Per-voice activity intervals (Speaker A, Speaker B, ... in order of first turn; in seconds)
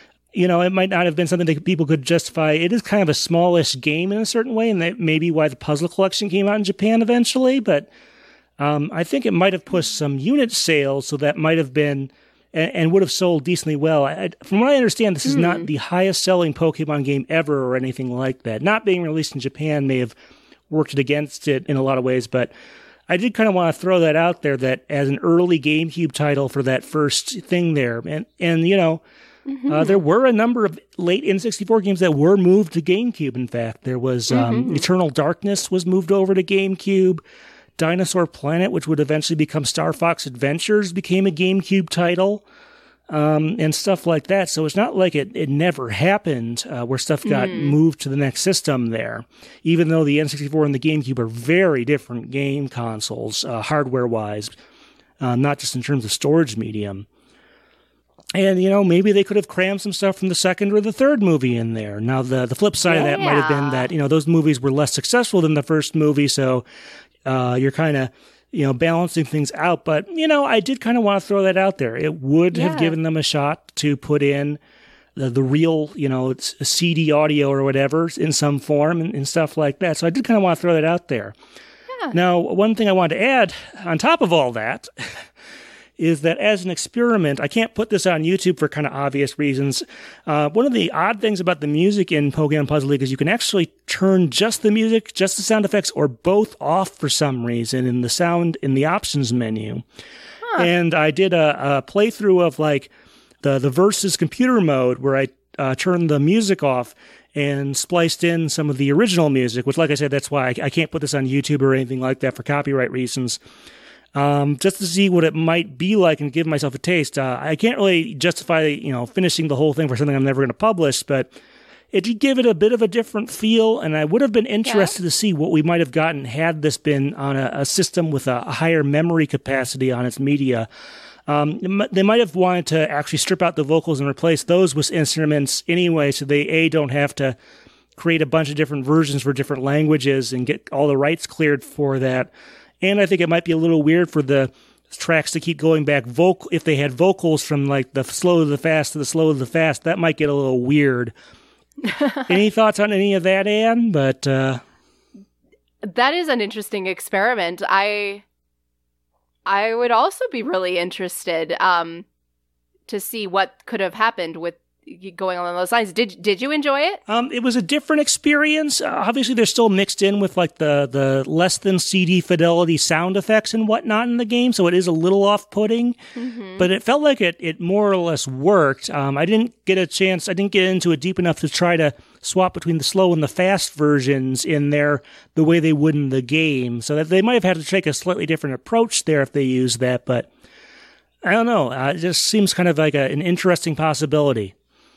Speaker A: 0.3-7.9, 8.6-20.1, 20.7-22.5, 23.1-29.0, 29.7-37.2, 37.8-42.4, 43.1-54.5, 55.2-57.1, 58.4-66.6, 67.2-74.6, 75.2-81.3, 82.1-85.3, 86.0-99.8, 100.6-102.9, 103.4-113.4, 114.2-121.3, 121.9-130.7, 131.3-137.4, 138.0-142.3, 142.8-151.2, 152.2-154.6, 167.1-176.0, 176.6-190.3, 191.2-194.5
Speaker B: 15.3-15.7, 29.5-30.0, 34.3-34.9, 47.3-47.8, 62.9-63.9, 72.5-73.0, 100.4-100.7, 124.7-124.9, 151.8-152.3, 155.8-158.2, 159.5-162.1, 162.9-167.0, 176.2-176.7